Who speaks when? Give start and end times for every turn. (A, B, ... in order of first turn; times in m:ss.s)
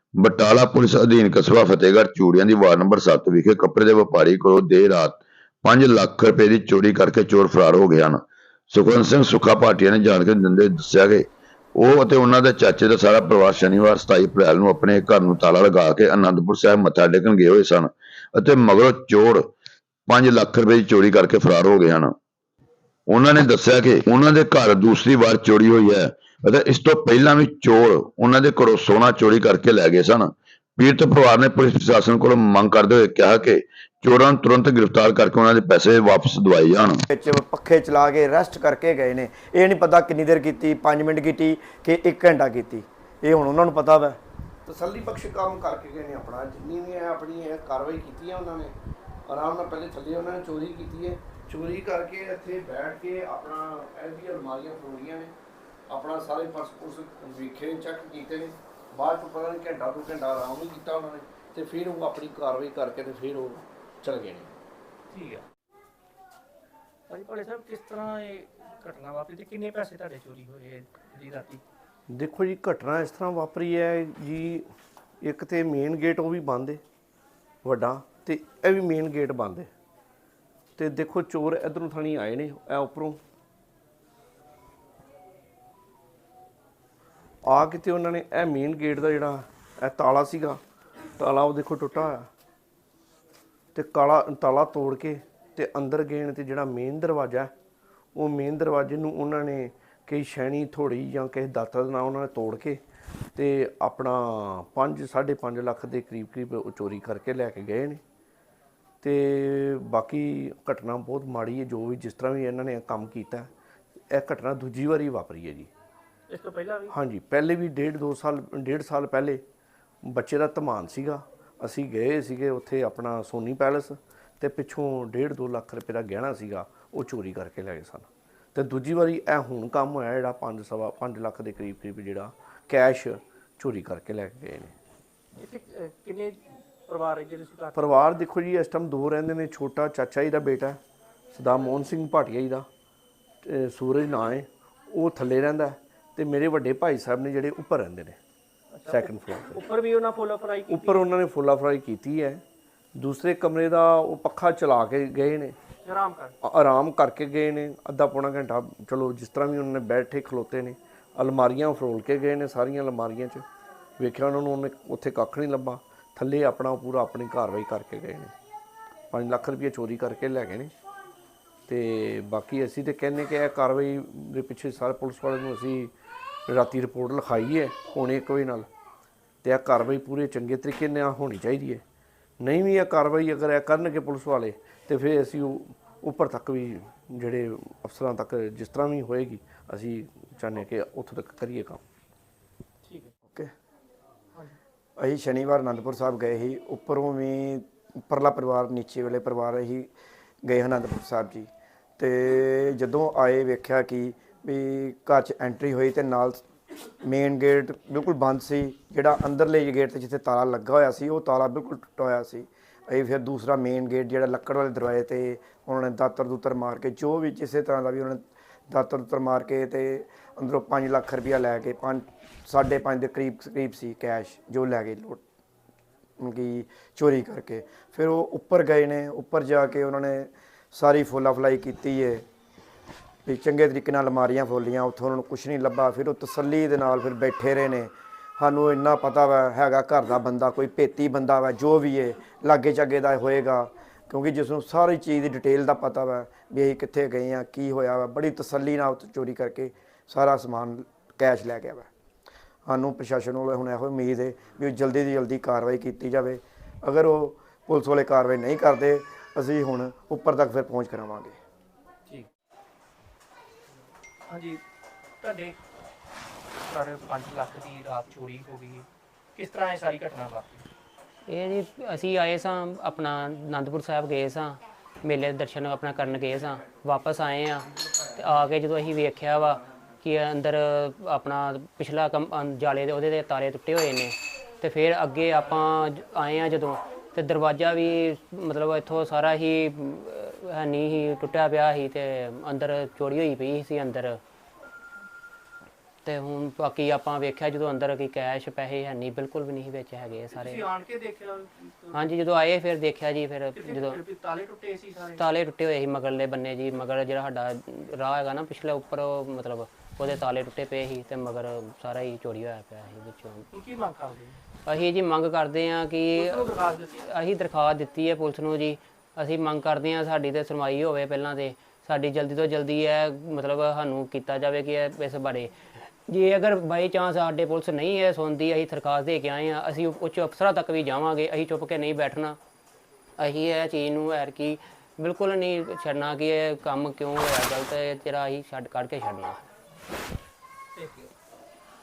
0:00.2-0:11.2 A
0:11.8-0:19.5 A
0:20.1-0:22.1 A
0:23.1-0:37.0 A
0:37.1-0:44.2 B
0:44.6-0:48.7 C
0:49.2-0:55.3 C
0:55.9-1:04.5 C
1:05.1-1:05.4 D
1:07.1-1:11.6 D
1:12.1-1:14.6 C
1:15.2-1:16.8 C
1:17.6-1:19.7 C
1:20.8-1:23.2 C
1:27.4-1:30.6 C
1:31.2-1:32.3 C
1:33.7-1:37.5 C
1:38.2-1:42.8 C
1:43.4-1:48.0 C
1:49.0-1:53.5 C
1:54.1-1:55.7 C
1:56.3-1:56.9 D
1:56.9-1:59.4 C
2:00.0-2:14.7 C
2:15.4-2:17.9 D
2:17.7-2:20.8 C
2:21.3-2:22.7 C
2:23.4-2:28.2 C
2:28.7-2:31.0 D
2:28.9-2:29.6 C
2:30.7-2:32.4 C
2:33.0-2:35.6 C
2:35.8-2:36.3 D
2:36.4-2:43.4 C
2:44.0-2:48.3 C
2:49.1-2:50.7 C
2:51.7-2:55.9 C
2:56.5-2:58.7 C
2:59.4-3:01.8 C
3:02.4-3:11.8 C
3:15.0-3:19.9 B
3:20.4-3:26.4 B
3:27.0-3:45.2 B
3:46.2-3:52.2 B
3:53.2-4:11.9 B
4:12.6-4:21.4 B
4:24.3-4:24.6 D
4:25.2-4:25.6 D
4:26.6-4:30.6 D
4:31.2-4:54.2 E
4:56.0-5:00.6 E
5:00.4-5:02.0 D
5:01.9-5:04.0 E
5:03.5-5:05.2 D
5:05.2-5:13.5 E
5:13.5-5:14.4 D
5:14.6-5:32.4 E
5:16.1-5:17.0 D
5:33.2-5:39.4 E
5:40.8-5:41.1 D